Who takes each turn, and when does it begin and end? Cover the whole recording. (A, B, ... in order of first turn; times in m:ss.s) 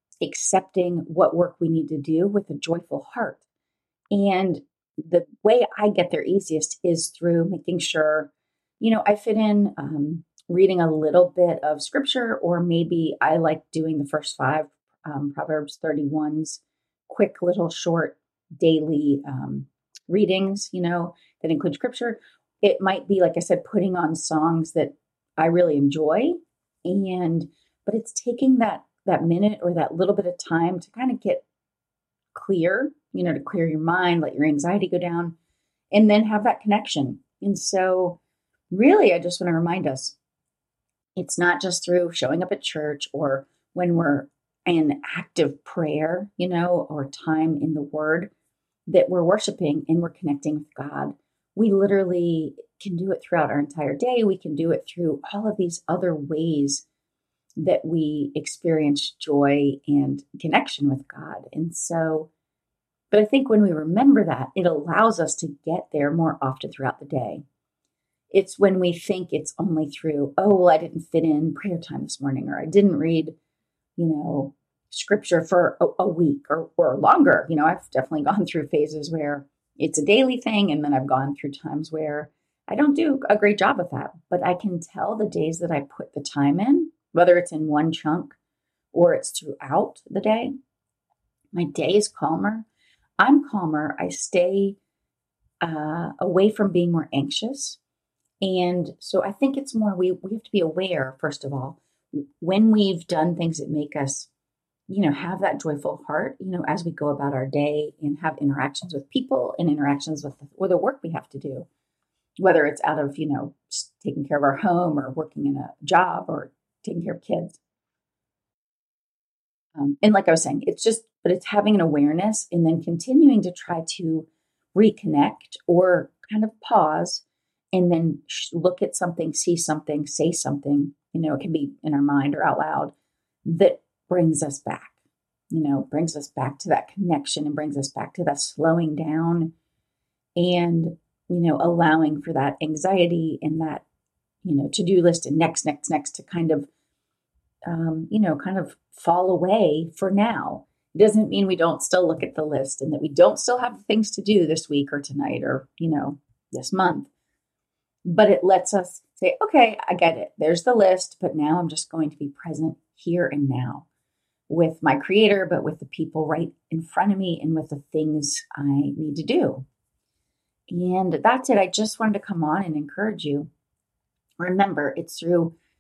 0:00.2-0:03.4 A
0:04.1-0:31.4 A
0:32.3-0:35.4 A
0:35.9-0:38.2 A
0:38.7-0:40.2 A
0:41.2-0:48.3 A
0:48.9-0:56.9 A
0:57.6-1:02.3 A
1:03.1-1:07.4 A
1:08.3-1:13.4 A
1:14.0-1:28.4 A
1:28.9-1:30.5 A
1:31.5-1:32.7 A
1:33.2-1:34.8 A
1:35.6-1:37.8 A
1:38.4-1:44.3 A
1:44.9-1:51.7 A
1:52.4-1:57.6 A
1:59.8-2:12.9 A
2:13.4-2:15.0 A
2:15.5-2:19.6 A
2:20.4-2:23.8 A
2:24.4-2:26.7 A
2:27.7-2:37.1 A
2:38.0-2:43.9 A
2:44.5-2:49.7 A
2:50.7-2:53.5 A
2:54.4-2:55.6 A